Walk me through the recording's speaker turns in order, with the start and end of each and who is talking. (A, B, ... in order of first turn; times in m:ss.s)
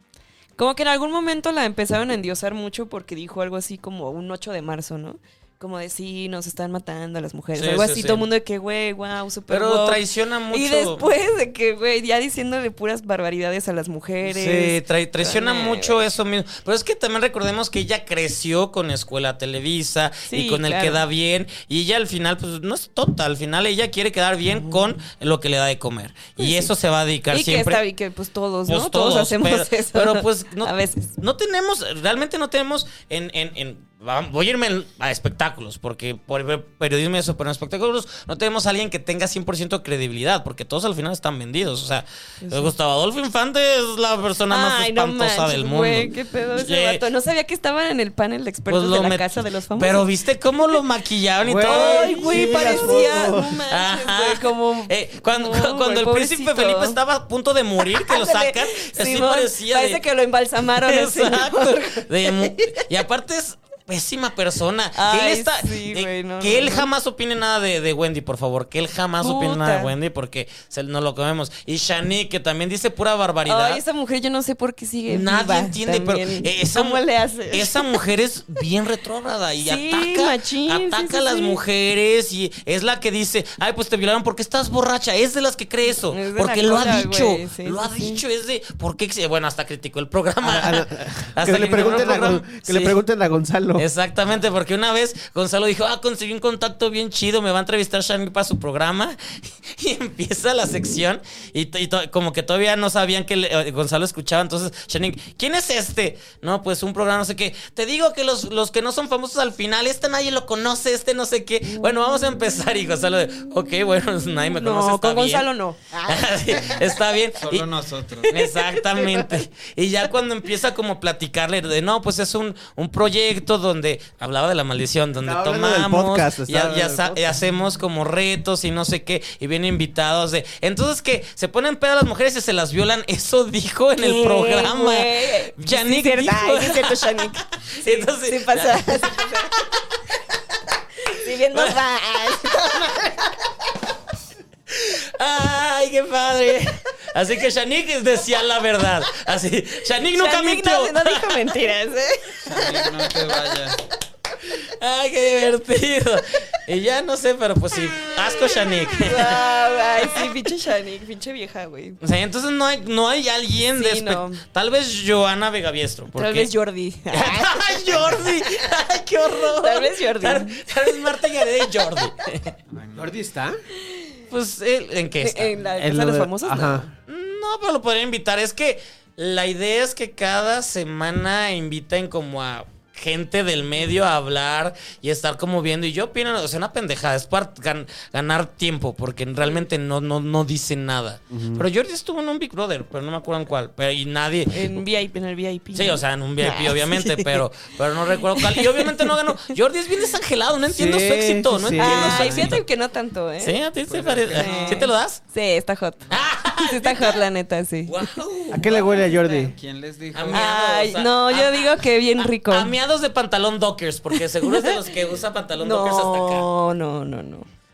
0:00.6-0:16.0 A
0:07.5-0:08.3 B
0:09.5-0:11.0 B
0:14.2-0:27.8 B
0:20.3-0:21.0 A
0:26.4-0:26.7 A
0:27.3-0:31.1 A
0:28.7-0:47.0 B
0:42.4-0:42.7 A
0:44.5-0:50.0 A
0:48.7-0:52.9 B
0:51.4-0:53.6 C
0:51.6-0:57.0 A
0:53.7-1:00.0 B
0:57.8-1:02.8 A
1:00.6-1:13.8 B
1:04.9-1:06.9 A
1:09.2-1:09.9 A
1:13.4-1:18.0 A
1:15.1-1:33.0 B
1:19.6-1:21.6 A
1:25.9-1:28.2 A
1:30.4-1:33.8 C
1:31.6-1:32.2 A
1:33.8-1:57.7 B
1:54.5-1:55.8 A
1:56.5-1:56.9 D
1:57.4-1:58.4 D
1:58.2-2:19.7 B
2:05.2-2:07.4 C
2:14.0-2:19.7 A
2:21.0-2:23.3 A
2:21.5-2:21.8 B
2:22.4-2:22.9 B
2:24.7-2:31.5 B
2:30.1-2:32.6 A
2:32.4-2:33.8 D
2:34.5-2:40.2 B
2:39.0-2:42.0 A
2:42.0-2:46.5 B
2:43.7-2:44.4 A
2:46.2-2:48.6 A
2:47.1-2:52.5 B
2:47.9-2:48.2 D
2:49.5-2:50.6 A
2:52.7-2:53.2 D
2:53.0-2:53.6 C
2:54.3-2:55.6 B
2:55.2-2:56.9 A
2:55.7-2:56.9 C
2:57.1-3:14.8 B
3:09.4-3:09.6 A
3:11.3-3:11.6 C
3:14.5-3:17.4 A
3:15.7-3:22.6 B
3:18.1-3:19.5 A
3:20.7-3:22.3 C
3:21.8-3:23.6 A
3:22.0-3:22.6 D
3:23.4-3:25.2 B
3:23.8-3:24.9 D
3:24.3-3:28.1 A
3:26.1-3:27.2 B
3:27.8-3:28.7 B
3:28.5-3:29.5 C
3:28.6-3:30.5 D
3:30.1-3:36.5 B
3:30.3-3:32.7 A
3:34.4-3:34.8 A
3:35.6-3:37.5 A